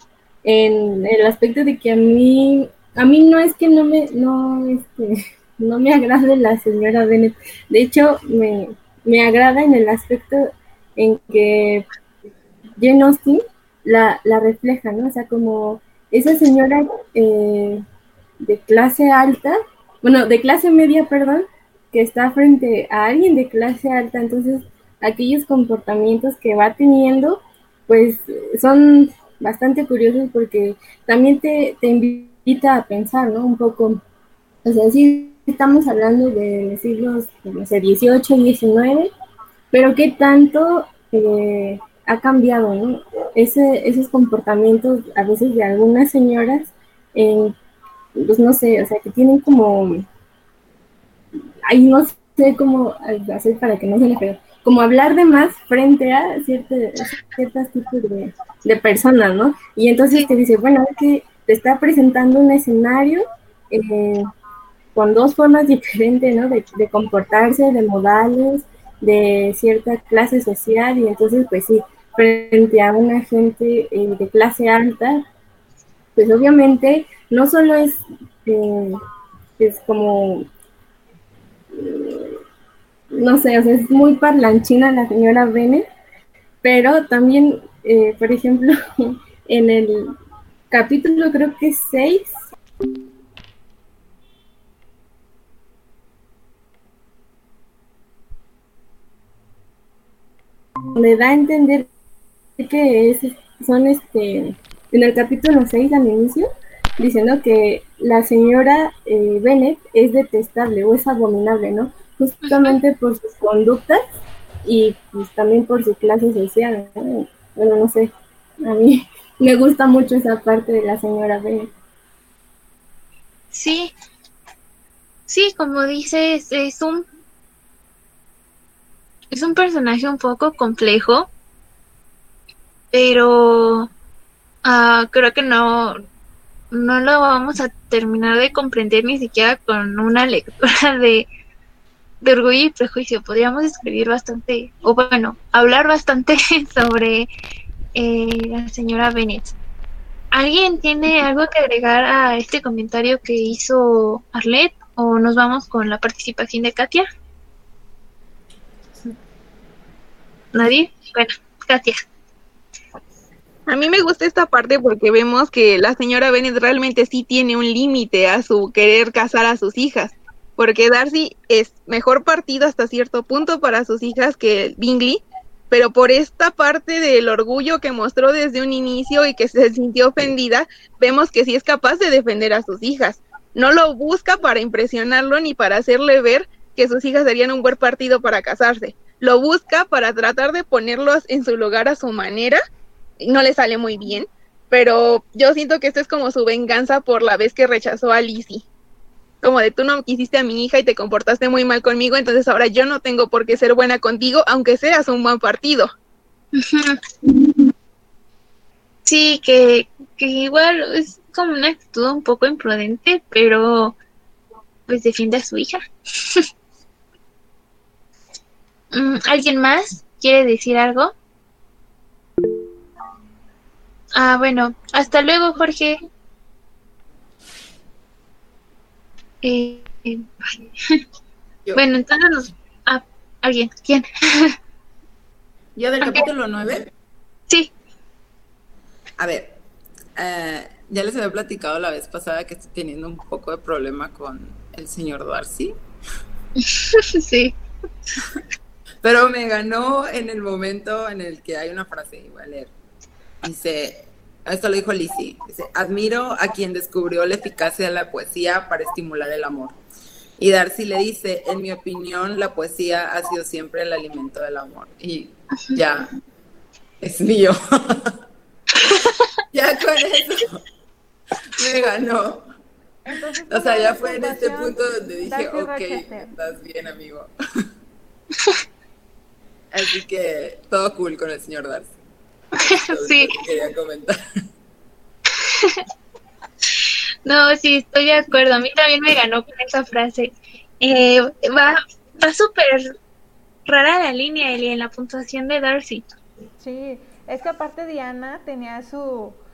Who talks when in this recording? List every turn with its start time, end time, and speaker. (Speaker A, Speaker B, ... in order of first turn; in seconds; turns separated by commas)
Speaker A: 0.4-11.9, Speaker A: 12.8-17.8, Speaker A: 18.4-34.0, Speaker A: 34.6-39.1, Speaker A: 39.7-47.5, Speaker A: 48.1-50.0, Speaker A: 51.7-64.3, Speaker A: 64.9-75.2, Speaker A: 76.2-79.0, Speaker A: 79.6-80.5, Speaker A: 81.7-82.4, Speaker A: 83.1-85.9, Speaker A: 86.6-90.1, Speaker A: 90.7-92.3, Speaker A: 100.9-101.9, Speaker A: 102.6-106.5, Speaker A: 107.0-114.0, Speaker B: 112.4-112.8, Speaker A: 114.6-118.1, Speaker A: 118.6-121.7, Speaker B: 123.5-123.9, Speaker B: 125.3-127.0, Speaker B: 129.3-131.3, Speaker B: 132.9-133.9, Speaker B: 134.6-135.9, Speaker B: 136.7-141.3, Speaker B: 142.2-147.3, Speaker B: 147.9-149.5, Speaker B: 150.3-157.1, Speaker B: 160.5-162.0, Speaker C: 163.7-192.6, Speaker C: 193.2-198.6, Speaker C: 199.4-205.9, Speaker B: 206.5-207.0, Speaker B: 209.0-213.9, Speaker B: 214.9-216.4, Speaker B: 218.9-221.1, Speaker B: 224.1-226.0, Speaker B: 229.4-231.0, Speaker B: 231.8-234.5, Speaker D: 235.8-236.9, Speaker D: 239.2-239.6, Speaker D: 240.2-245.7, Speaker B: 246.6-247.5, Speaker D: 249.0-252.7, Speaker D: 253.4-259.8, Speaker D: 260.4-266.1, Speaker D: 267.0-268.1, Speaker D: 269.5-270.6, Speaker D: 271.6-272.4, Speaker E: 273.1-276.3, Speaker D: 273.5-277.3, Speaker D: 279.7-281.9, Speaker D: 282.9-284.2, Speaker B: 282.9-283.3, Speaker B: 287.2-292.9, Speaker B: 293.7-296.0, Speaker E: 296.6-299.4